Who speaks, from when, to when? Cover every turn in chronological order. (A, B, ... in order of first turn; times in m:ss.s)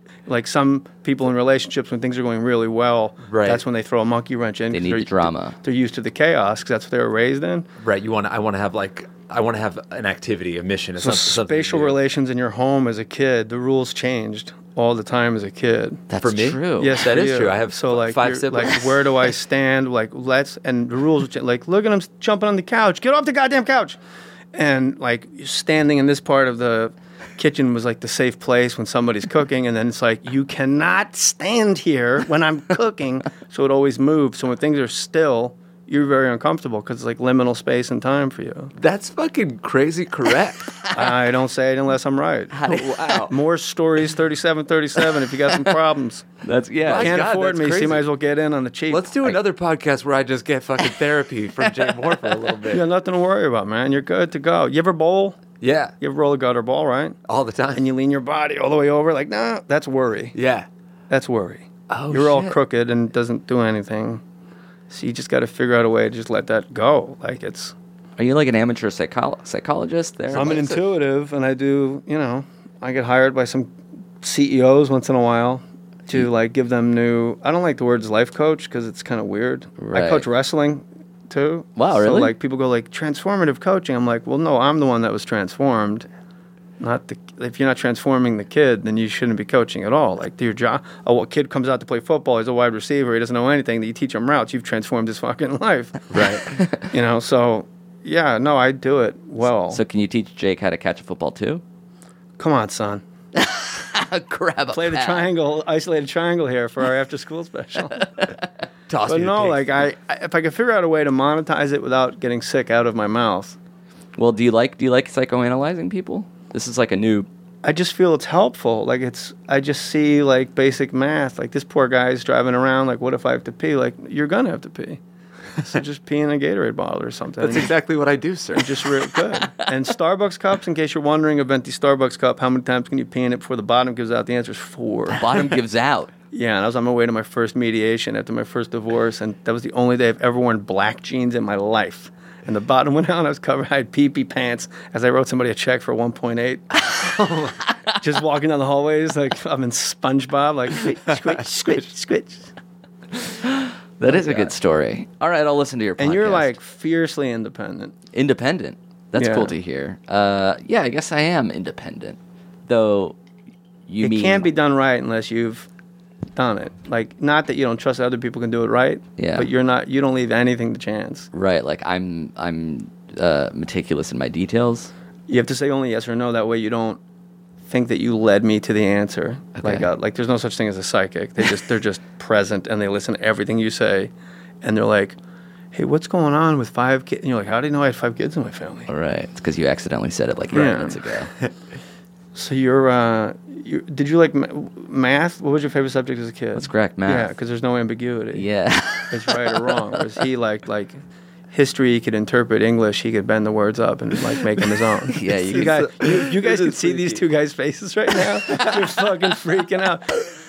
0:00.3-0:07.6 A
0:03.3-0:03.6 B
0:04.7-0:05.6 C
0:07.8-0:12.0 B
0:11.0-0:16.0 A
0:16.1-0:17.0 C
0:16.2-0:19.1 B
0:16.8-0:24.0 A
0:24.5-0:38.7 A
0:38.8-0:40.8 B
0:40.9-0:46.3 A
0:42.5-0:43.3 C
0:42.7-0:43.1 B
0:46.4-0:47.2 C
0:46.8-0:48.0 B
0:47.0-0:49.4 A
0:48.9-0:52.8 B
0:52.7-0:55.5 A
0:55.6-0:55.9 B
0:56.0-0:57.2 A
0:57.3-0:57.9 B
0:57.7-1:00.3 A
1:00.3-1:00.7 B
1:01.1-1:04.2 A
1:01.9-1:02.6 B
1:04.9-1:07.7 A
1:08.2-1:10.8 C
1:10.3-1:26.1 A
1:19.8-1:20.2 C
1:21.8-1:22.3 C
1:26.8-1:36.1 A
1:36.1-1:36.5 B
1:36.5-1:36.8 C
1:36.9-1:39.8 A
1:39.7-1:41.6 C
1:42.4-1:43.0 A
1:43.4-1:45.3 C
1:44.7-1:48.1 A
1:48.9-1:49.8 B
1:49.0-1:53.6 A
1:54.2-1:57.3 C
1:57.6-2:05.0 A
2:05.6-2:07.7 A
2:07.4-2:09.0 B
2:08.5-2:15.2 A
2:15.1-2:16.1 C
2:16.3-2:27.2 A
2:27.2-2:27.5 B
2:27.9-2:32.5 A
2:33.2-2:36.5 C
2:34.1-2:34.5 A
2:36.0-2:37.9 A
2:38.1-2:43.2 C
2:39.2-2:39.5 A
2:43.9-2:44.5 C
2:44.0-2:45.7 A
2:46.4-2:51.3 A
2:49.2-2:49.5 C
2:51.3-2:54.9 C
2:55.3-2:57.0 A
2:57.6-3:05.2 A
2:59.6-2:59.9 C
3:05.7-3:08.9 A
3:08.9-3:11.3 C
3:10.5-3:11.0 A
3:12.3-3:18.4 A
3:16.5-3:17.3 C
3:18.3-3:19.7 C
3:19.1-3:21.0 A
3:21.5-3:30.2 A
3:25.1-3:25.8 C
3:25.3-3:27.3 B
3:28.5-3:28.8 B